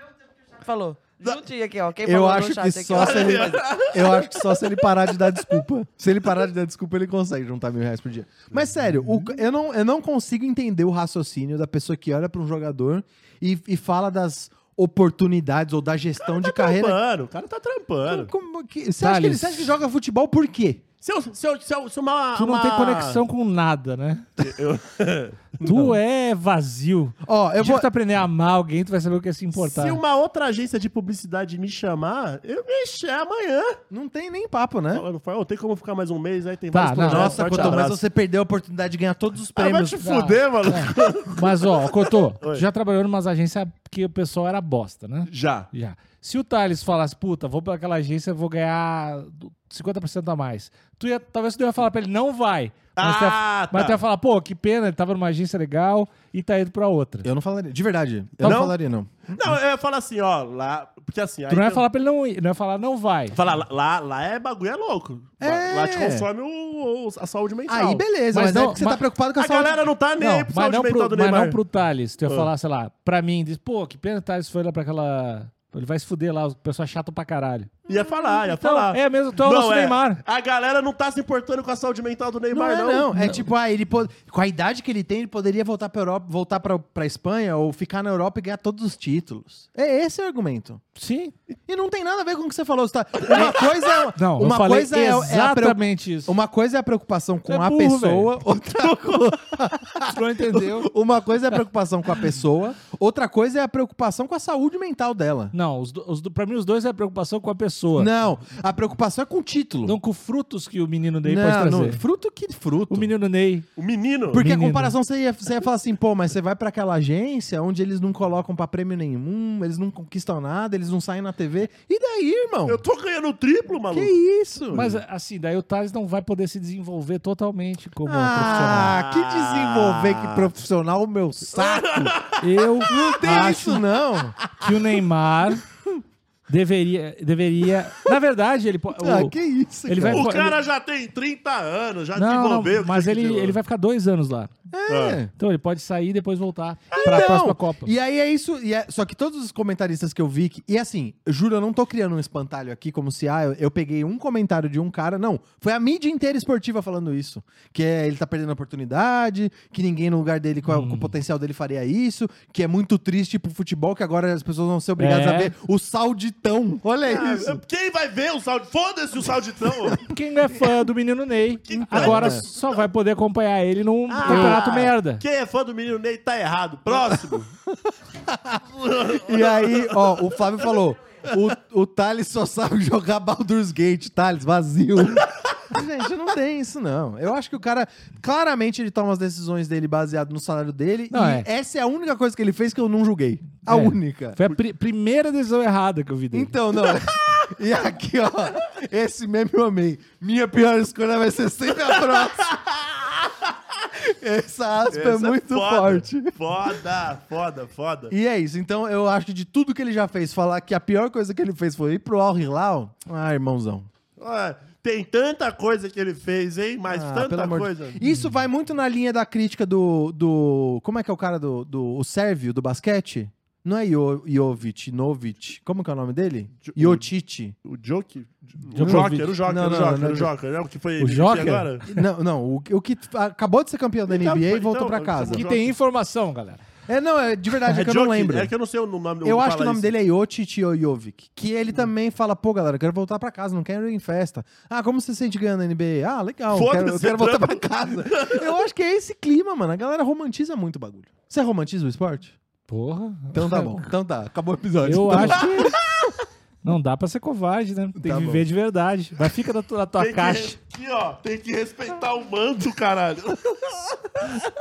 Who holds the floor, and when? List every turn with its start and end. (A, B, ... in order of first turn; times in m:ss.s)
0:00.4-0:03.6 A
0:02.0-0:17.0 B
0:02.9-0:04.6 C
0:16.3-0:18.3 C
0:18.0-0:20.8 B
0:19.0-0:19.8 D
0:21.0-0:23.2 C
0:22.3-0:24.2 D
0:24.4-0:25.5 C
0:25.6-0:25.9 B
0:25.6-0:30.0 D
0:27.2-0:27.9 B
0:29.5-0:33.8 C
0:33.9-0:35.0 B
0:34.9-0:38.0 C
0:36.7-0:37.9 D
0:37.0-0:40.0 B
0:39.6-0:42.6 C
0:40.0-0:57.3 D
0:45.3-0:45.7 C
0:53.0-0:54.0 C
0:57.2-0:59.5 B
0:58.4-0:58.7 D
0:59.4-1:01.8 C
1:01.5-1:03.4 D
1:03.3-1:08.1 C
1:05.4-1:06.3 B
1:07.7-1:09.9 B
1:08.3-1:09.1 D
1:09.4-1:11.6 C
1:10.2-1:17.8 D
1:17.9-1:23.1 C
1:18.4-1:20.2 D
1:22.5-1:30.8 B
1:23.1-1:23.5 D
1:31.0-1:31.3 D
1:31.7-1:45.5 B
1:33.3-1:36.4 D
1:37.4-1:38.4 D
1:39.9-1:40.9 D
1:45.5-1:48.1 D
1:47.9-1:50.0 B
1:49.8-1:52.0 D
1:51.2-1:53.1 B
1:52.9-1:53.6 D
1:53.8-1:54.4 C
1:54.3-2:02.8 B
1:54.3-1:55.0 D
2:02.6-2:04.2 C
2:03.9-2:04.9 B
2:04.7-2:09.0 D
2:08.0-2:12.1 B
2:08.5-2:10.5 C
2:11.5-2:13.1 C
2:12.4-2:13.9 D
2:12.8-2:14.4 B
2:14.6-2:15.6 D
2:16.5-2:20.6 D
2:19.0-2:20.3 B
2:20.1-2:23.6 C
2:22.1-2:24.5 D
2:24.7-2:25.3 B
2:24.9-2:25.2 C
2:25.3-2:27.9 D
2:26.9-2:47.6 B
2:40.6-2:41.2 D
2:45.0-2:45.5 D
2:47.0-2:50.0 C
2:50.0-2:55.2 D
2:51.6-2:52.6 C
2:51.7-2:52.4 B
2:54.1-2:54.8 A
2:54.2-2:54.7 B
2:55.1-2:57.5 C
2:58.3-2:58.6 B
2:58.7-3:00.0 C
2:59.1-3:14.6 B
3:11.1-3:11.5 D
3:13.6-3:17.0 D
3:16.3-3:22.9 B
3:23.8-3:26.3 B
3:24.9-3:28.1 C
3:28.1-3:33.9 B
3:34.2-3:38.0 C
3:36.9-3:47.5 B
3:38.1-3:38.4 D
3:46.6-3:47.0 C
3:47.6-3:51.8 C
3:48.7-3:49.4 D
3:48.8-3:50.3 B
3:51.0-3:52.0 D
3:51.9-3:55.4 B
3:54.1-3:55.8 C
3:55.3-3:56.6 D
3:56.9-3:58.5 B
3:57.7-3:59.9 C
3:59.2-4:12.4 B
4:06.5-4:08.5 C
4:12.7-4:13.9 D
4:13.3-4:15.7 B
4:14.8-4:15.8 D
4:16.6-4:20.6 D
4:18.0-4:18.4 B
4:20.0-4:24.5 C